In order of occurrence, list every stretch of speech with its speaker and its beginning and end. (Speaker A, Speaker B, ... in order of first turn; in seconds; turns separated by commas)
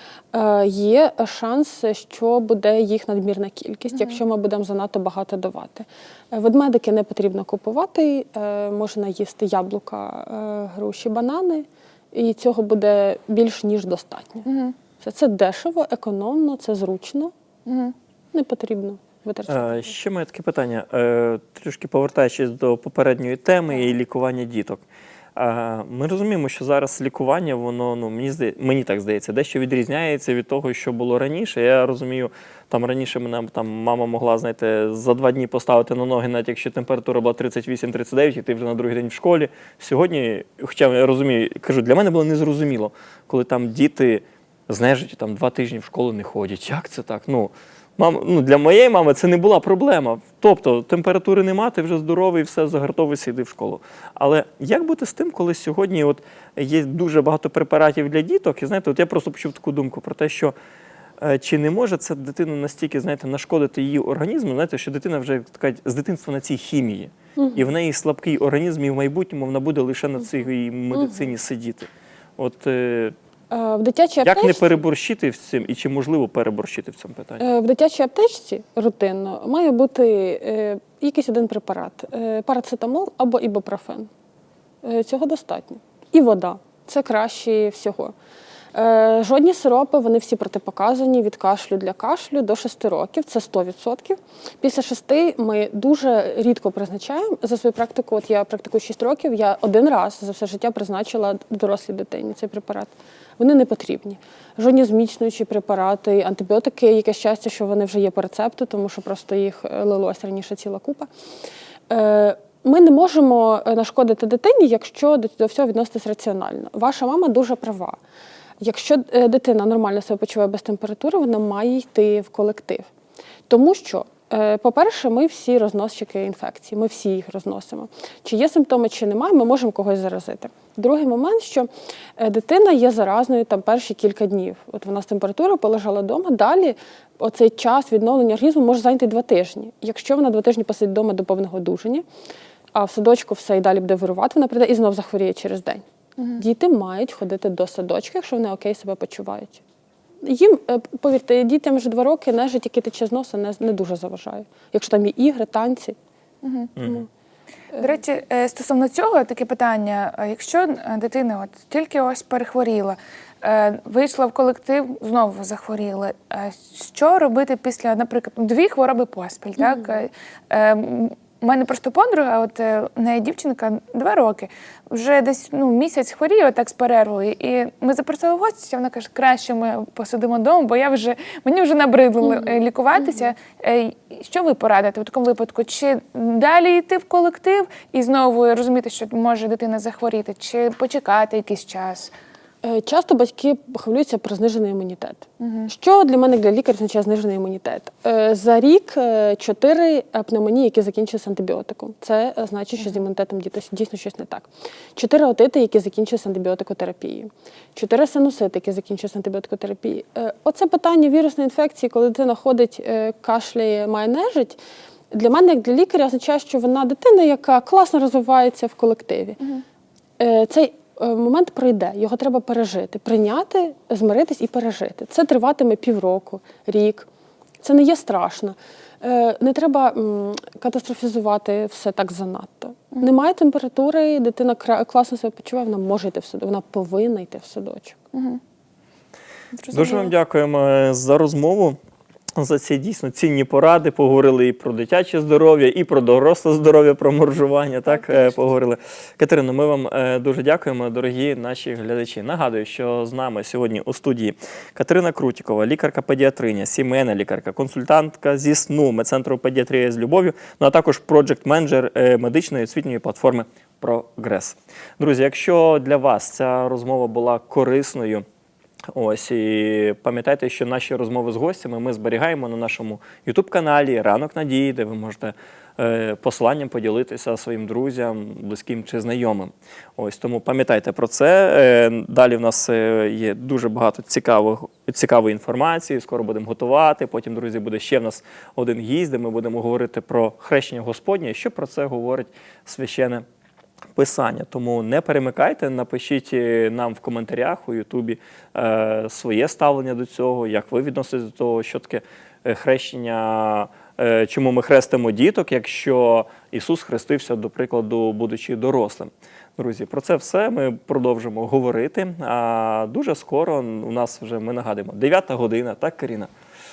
Speaker A: 0.3-14.4, Speaker B: 14.5-14.8, Speaker A: 15.0-17.3, Speaker B: 17.7-17.9, Speaker A: 18.3-19.9, Speaker C: 19.5-24.8, Speaker C: 25.4-60.5, Speaker C: 61.2-73.2, Speaker A: 67.4-67.6, Speaker A: 71.0-71.2, Speaker A: 73.5-74.7, Speaker C: 74.2-77.4, Speaker A: 77.4-84.1, Speaker A: 84.8-88.1, Speaker A: 88.7-111.1, Speaker A: 111.9-118.0, Speaker A: 118.6-122.9, Speaker A: 123.5-142.0, Speaker A: 142.7-145.8, Speaker A: 146.4-149.6, Speaker A: 150.2-156.0, Speaker B: 156.4-156.7, Speaker C: 156.8-157.1, Speaker B: 157.7-192.1, Speaker A: 169.6-169.9, Speaker A: 182.2-182.6, Speaker A: 192.6-214.6, Speaker B: 195.4-195.7, Speaker A: 215.1-219.4, Speaker A: 220.2-227.1, Speaker A: 227.6-238.0, Speaker B: 238.1-238.4, Speaker B: 239.5-240.1, Speaker C: 239.7-241.8, Speaker C: 242.4-268.2, Speaker B: 248.0-248.3, Speaker C: 268.9-293.2, Speaker C: 294.0-316.3